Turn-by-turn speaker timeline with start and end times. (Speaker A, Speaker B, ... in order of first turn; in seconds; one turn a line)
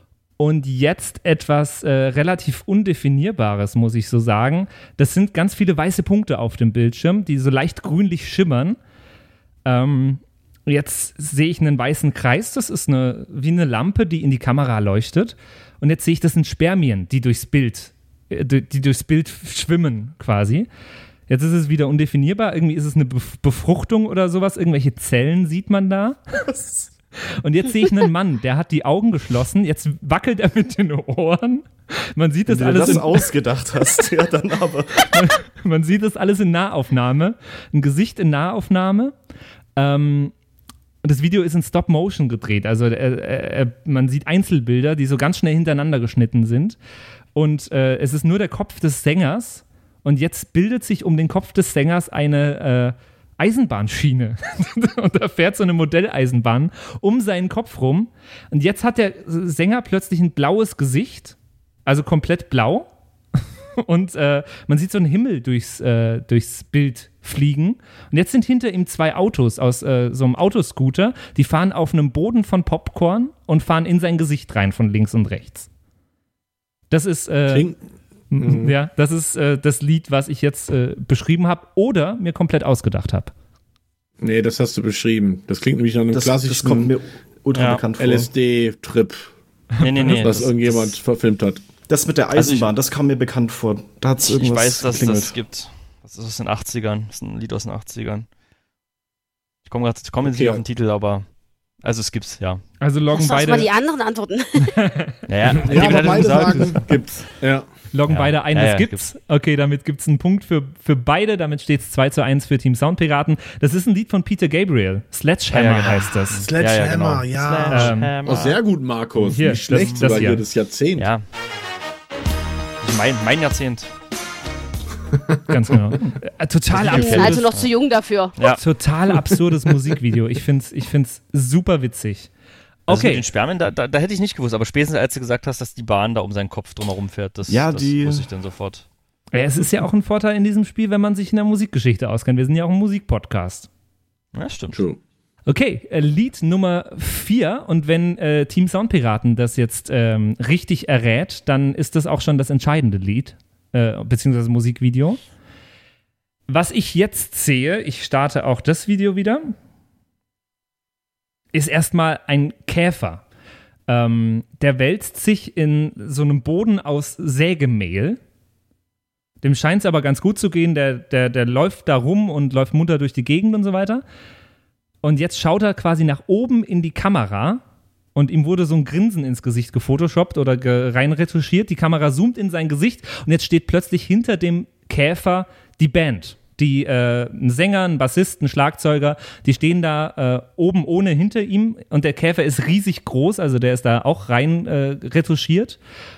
Speaker A: 0.4-8.8
Speaker A: 9.7-20.7
Speaker A: 21.3-26.8
Speaker A: 27.4-33.3
Speaker B: 32.5-35.2
Speaker A: 35.1-39.1
Speaker A: 39.8-40.3
Speaker A: 41.0-46.8
Speaker A: 47.3-61.3
Speaker A: 61.9-62.9
Speaker A: 63.8-75.7
Speaker A: 76.9-77.7
Speaker C: 77.5-77.8
Speaker A: 78.3-83.3
Speaker C: 78.4-78.8
Speaker C: 84.2-86.9
Speaker B: 86.1-88.3
Speaker D: 87.5-87.8
Speaker C: 88.0-89.3
Speaker D: 89.8-91.0
Speaker C: 90.2-91.6
Speaker B: 91.9-95.4
Speaker D: 92.3-92.7
Speaker D: 94.2-98.3
Speaker D: 99.7-101.3
Speaker C: 100.2-100.6
Speaker D: 101.8-102.6
Speaker A: 102.8-103.7
Speaker E: 103.1-104.7
Speaker D: 105.3-106.9
Speaker C: 105.5-107.7
Speaker B: 106.2-106.5
Speaker A: 107.9-116.5
Speaker D: 108.1-109.0
Speaker D: 115.5-118.6
Speaker C: 116.4-121.1
Speaker A: 117.7-118.1
Speaker A: 119.3-120.4
Speaker D: 121.0-121.2
Speaker D: 122.8-123.9
Speaker C: 125.2-125.4
Speaker A: 125.5-127.5
Speaker D: 126.7-127.7
Speaker E: 126.9-128.3
Speaker A: 128.4-132.3
Speaker A: 132.9-133.2
Speaker D: 132.9-138.9
Speaker B: 137.5-138.3
Speaker A: 139.3-143.7
Speaker D: 144.3-144.8
Speaker C: 144.7-145.0
Speaker A: 145.5-155.2
Speaker A: 156.5-159.5
Speaker A: 161.5-163.2
Speaker A: 163.9-168.2
Speaker A: 169.4-174.0
Speaker A: 175.0-177.6
Speaker A: 178.1-195.8